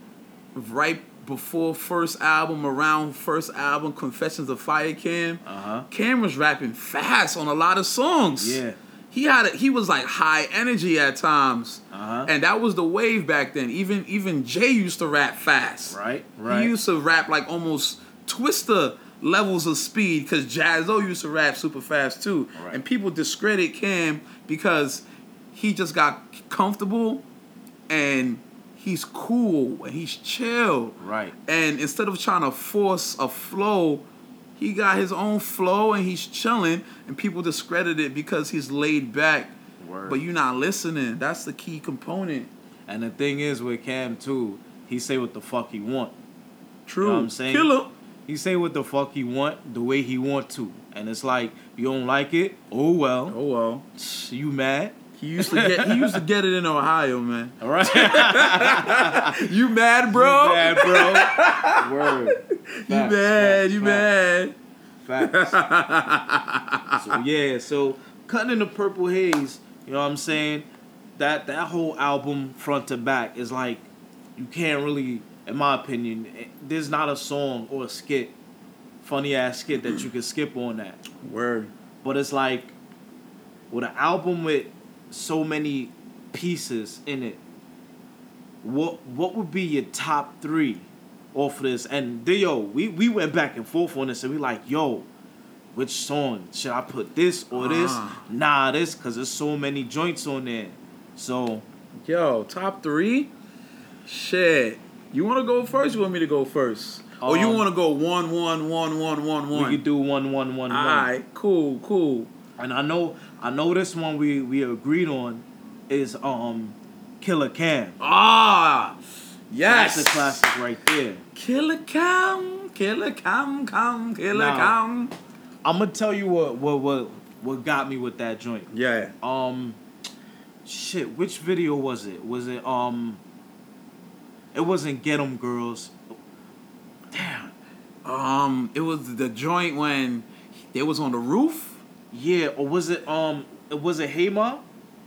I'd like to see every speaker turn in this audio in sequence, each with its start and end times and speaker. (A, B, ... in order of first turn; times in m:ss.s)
0:00.5-0:27.2 A
0:05.4-0:05.9 B
0:08.4-0:08.8 B
0:11.9-0:12.3 B
0:15.9-0:16.7 B
0:27.9-0:34.0 A
0:31.0-0:31.3 B
0:34.6-0:42.5 A
0:39.8-0:40.2 B
0:42.9-0:46.1 B
0:46.9-0:47.9 A
0:47.0-0:47.7 B
0:48.2-0:53.4 B
0:53.3-0:53.8 A
0:54.0-0:56.2 B
0:55.2-1:04.5 A
0:57.6-0:59.4 B
1:00.1-1:04.1 B
1:05.0-1:05.6 B
1:05.2-1:07.2 A
1:07.0-1:10.7 B
1:11.2-1:18.3 B
1:19.0-1:21.0 B
1:21.2-1:21.7 A
1:22.0-1:22.7 B
1:23.7-1:27.4 B
1:28.6-1:35.1 B
1:35.7-1:41.6 B
1:37.5-1:38.2 A
1:42.0-1:43.3 A
1:44.0-1:49.8 A
1:47.2-1:47.6 B
1:49.5-1:51.1 B
1:50.7-1:52.3 A
1:52.6-1:58.0 B
1:58.0-1:59.0 A
1:59.5-2:00.4 A
1:59.6-2:01.2 B
2:01.3-2:05.1 A
2:04.3-2:04.8 B
2:05.6-2:08.7 B
2:08.7-2:09.1 A
2:09.2-2:09.8 B
2:10.6-2:13.2 B
2:14.5-2:16.0 B
2:17.1-2:17.5 B
2:18.0-2:21.8 A
2:22.1-2:24.6 B